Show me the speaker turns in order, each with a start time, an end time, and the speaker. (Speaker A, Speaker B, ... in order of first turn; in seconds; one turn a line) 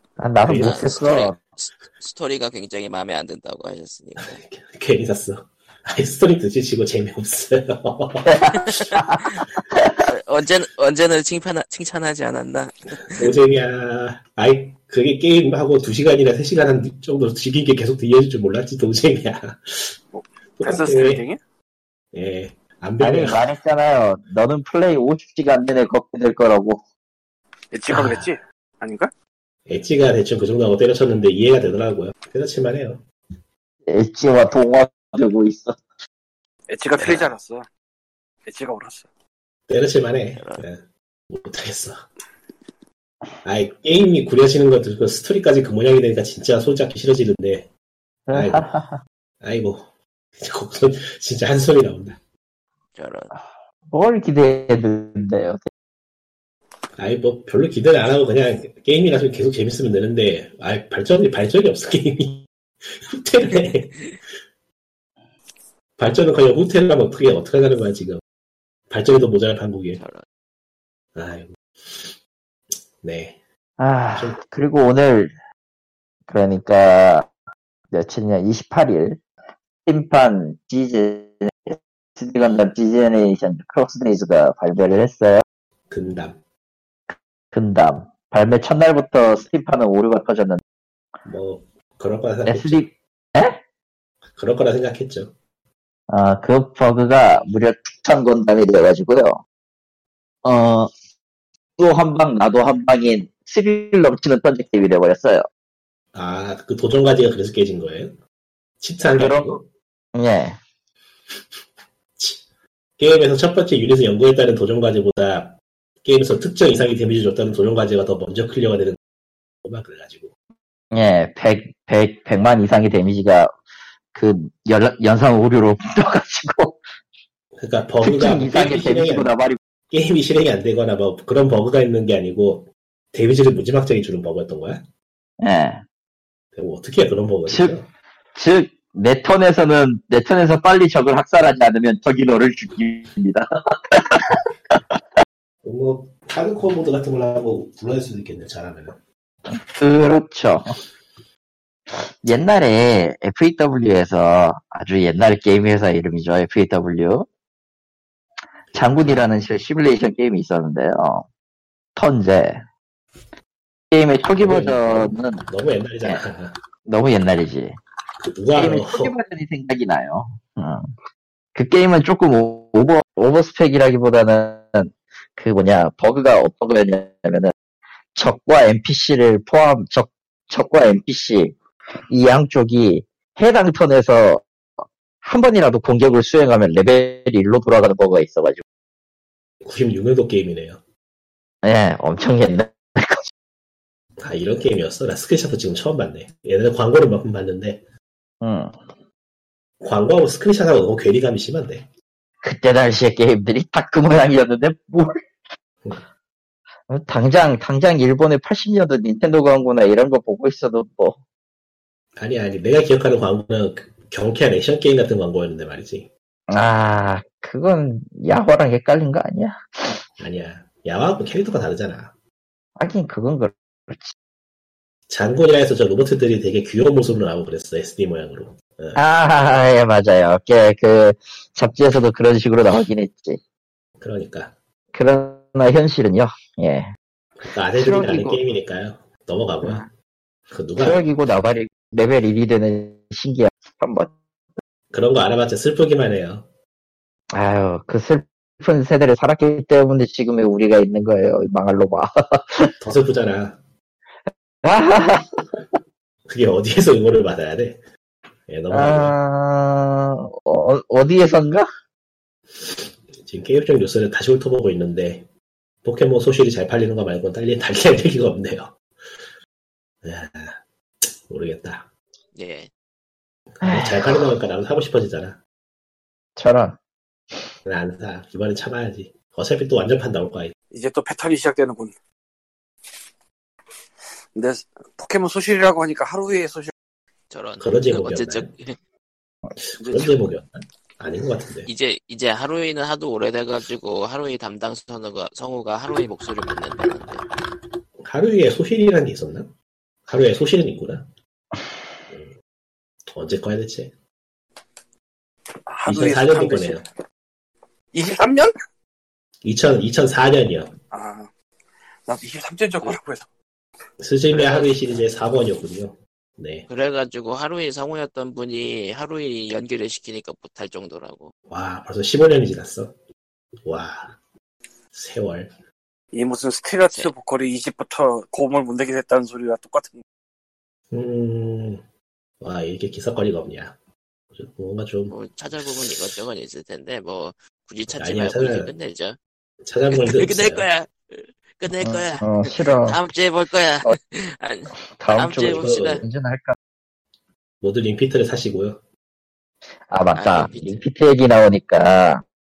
Speaker A: 0.2-1.4
Speaker B: 0.5-0.9
Speaker C: 0.5-4.4
Speaker B: 4.2-8.6
Speaker A: 8.2-10.1
Speaker C: 8.9-9.4
Speaker C: 10.0-13.3
Speaker B: 13.2-20.0
Speaker D: 20.1-21.4
Speaker B: 20.6-21.2
Speaker B: 22.1-23.4
Speaker A: 23.0-26.8
Speaker D: 27.7-29.1
Speaker B: 27.9-28.3
Speaker B: 29.7-33.0
Speaker A: 33.9-35.8
Speaker D: 36.7-37.7
Speaker B: 37.0-37.3
Speaker D: 38.5-39.1
Speaker B: 39.7-42.1
Speaker C: 40.4-40.6
Speaker B: 43.5-47.7
Speaker A: 48.3-49.0
Speaker B: 48.3-48.7
Speaker B: 49.4-52.2
Speaker C: 53.0-53.3
Speaker A: 53.9-55.7
Speaker B: 57.0-64.3
Speaker B: 66.0-68.2
Speaker B: 68.9-70.0
Speaker C: 70.0-70.2
Speaker B: 71.2-72.1
Speaker B: 73.0-73.4
Speaker A: 73.8-75.3
Speaker B: 74.2-74.4
Speaker A: 76.3-77.3
Speaker A: 77.9-79.2
Speaker A: 79.9-85.4
Speaker B: 85.9-86.4
Speaker A: 87.1-90.6
Speaker B: 91.2-92.8
Speaker A: 92.5-93.6
Speaker B: 94.2-95.3
Speaker A: 96.1-99.4
Speaker A: 100.4-100.9
Speaker A: 101.8-105.5
Speaker B: 106.1-108.2
Speaker B: 108.8-109.6
Speaker A: 109.0-109.6
Speaker A: 110.1-110.6
Speaker B: 112.2-112.4
Speaker B: 113.0-119.0
Speaker B: 119.6-120.3
Speaker A: 120.9-123.5
Speaker A: 124.1-126.8
Speaker B: 127.6-129.3
Speaker A: 128.0-129.6
Speaker B: 129.9-134.8
Speaker A: 135.4-135.8
Speaker B: 136.6-137.9
Speaker A: 137.5-137.8
Speaker A: 138.4-145.0
Speaker B: 145.6-149.0
Speaker A: 149.5-150.8
Speaker A: 151.9-157.3
Speaker A: 158.7-161.3
Speaker A: 161.9-162.6
Speaker A: 163.9-165.5
Speaker B: 164.4-166.6
Speaker A: 166.9-167.8
Speaker B: 168.2-169.2
Speaker A: 168.6-170.9
Speaker A: 171.6-177.5
Speaker A: 178.2-181.6
Speaker A: 182.1-184.5
Speaker A: 185.2-188.6
Speaker B: 189.6-190.8
Speaker A: 191.6-193.2
Speaker B: 194.2-197.8
Speaker A: 198.4-198.8
Speaker B: 199.8-201.9
Speaker A: 202.4-205.3
Speaker A: 206.9-211.2
Speaker B: 212.2-216.1
Speaker A: 216.5-220.1
Speaker B: 220.2-222.1
Speaker A: 222.8-224.1
Speaker B: 225.1-229.0
Speaker A: 228.9-233.4
Speaker B: 234.0-234.6
Speaker A: 234.9-236.9
Speaker B: 237.4-239.8
Speaker A: 237.8-238.4
Speaker A: 239.6-239.9
Speaker B: 240.5-241.1
Speaker A: 240.8-244.1
Speaker B: 244.9-246.5
Speaker A: 247.3-252.7
Speaker B: 252.8-253.6
Speaker A: 254.6-255.6
Speaker B: 256.3-257.8
Speaker B: 258.5-259.1
Speaker A: 258.7-261.7
Speaker B: 262.6-265.3
Speaker B: 265.8-268.8
Speaker B: 270.0-271.9
Speaker C: 272.3-272.7
Speaker B: 273.5-275.4
Speaker A: 273.6-274.3
Speaker A: 276.4-276.8
Speaker B: 277.7-280.5
Speaker D: 280.7-281.9
Speaker D: 284.4-286.7
Speaker C: 287.3-288.8
Speaker B: 287.6-288.5
Speaker B: 289.6-291.7
Speaker D: 289.8-290.2
Speaker C: 291.6-297.2
Speaker B: 298.0-299.5
Speaker B: 300.1-301.1
Speaker B: 303.1-303.9
Speaker D: 305.7-306.9
Speaker B: 305.9-306.9
Speaker D: 307.9-308.5
Speaker B: 309.4-310.8
Speaker D: 310.9-311.3
Speaker D: 312.1-313.3
Speaker B: 314.0-316.7
Speaker D: 314.4-314.7
Speaker C: 316.7-321.3
Speaker B: 321.5-322.9
Speaker B: 323.7-324.2
Speaker B: 324.9-325.5
Speaker D: 326.1-330.0
Speaker C: 326.9-327.1
Speaker B: 330.9-331.8
Speaker B: 332.4-333.8
Speaker B: 334.3-335.1
Speaker C: 335.1-339.2
Speaker B: 338.0-338.7
Speaker B: 339.6-340.7
Speaker C: 339.9-346.0
Speaker A: 341.8-343.0
Speaker A: 344.9-346.6
Speaker B: 345.5-346.0
Speaker B: 347.6-348.8
Speaker A: 349.9-352.2
Speaker C: 350.1-350.9